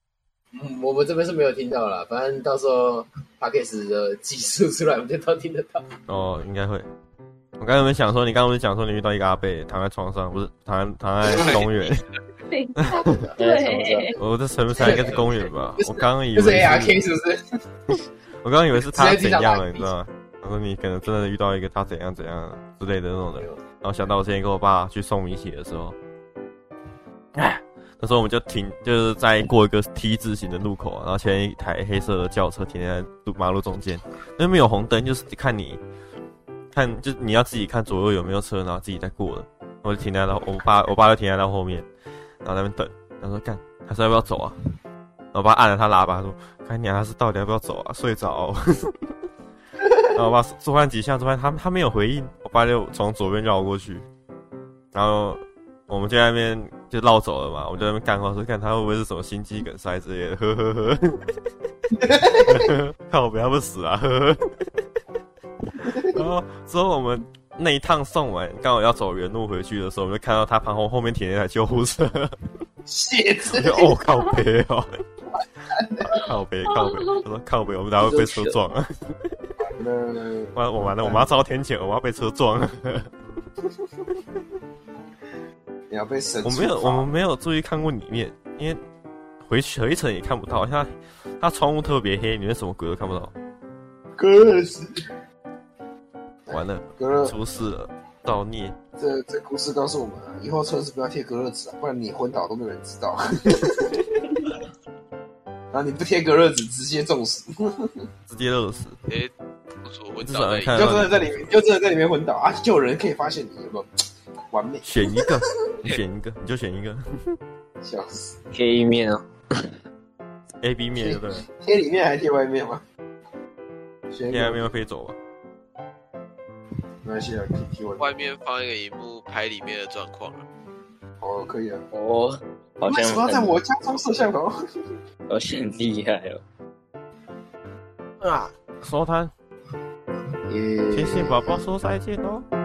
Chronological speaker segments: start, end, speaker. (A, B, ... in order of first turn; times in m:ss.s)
0:00.5-0:05.9 A
0:06.1-0:06.9 B
0:07.6-0:12.0 B
0:12.5-0:14.2 C
0:13.0-0:13.4 A
0:13.4-0:14.1 D
0:14.2-0:17.0 B
0:14.8-0:17.4 A
0:18.4-0:25.9 B
0:18.9-0:19.9 A
0:27.3-0:35.8 B
0:36.7-0:41.9 B
0:42.4-0:44.6 B
0:45.3-0:48.9 B
0:50.1-0:54.0 B
0:54.9-1:01.2 B
1:02.0-1:02.7 A
1:02.4-1:04.4 B
1:05.8-1:06.2 A
1:05.8-1:12.3 B
1:12.8-1:13.9 A
1:13.5-1:14.9 B
1:15.4-1:16.2 A
1:16.0-1:18.9 B
1:16.7-1:17.2 C
1:18.0-1:18.6 A
1:19.6-1:21.3 A
1:20.5-1:23.1 B
1:25.9-1:27.1 A
1:26.4-1:28.8 B
1:29.4-1:33.3 B
1:34.2-1:34.9 A
1:36.5-1:37.4 A
1:36.5-1:38.7 B
1:39.0-1:44.0 A
1:45.7-1:48.1 A
1:48.3-1:49.0 B
1:49.8-1:51.0 E
1:50.2-1:51.5 B
1:50.7-1:53.9 A
1:54.5-1:54.9 A
1:54.8-1:57.3 B
1:57.8-1:58.4 A
1:58.5-1:59.2 D
2:00.6-2:01.4 B
2:01.0-2:02.8 A
2:04.1-2:04.7 A
2:04.3-2:05.2 B
2:07.0-2:08.1 A
2:08.0-2:10.4 E
2:11.2-2:11.8 A
2:11.9-2:13.6 D
2:12.8-2:14.5 A
2:15.3-2:16.4 D
2:18.8-2:19.3 B
2:20.5-2:21.6 A
2:20.9-2:22.4 B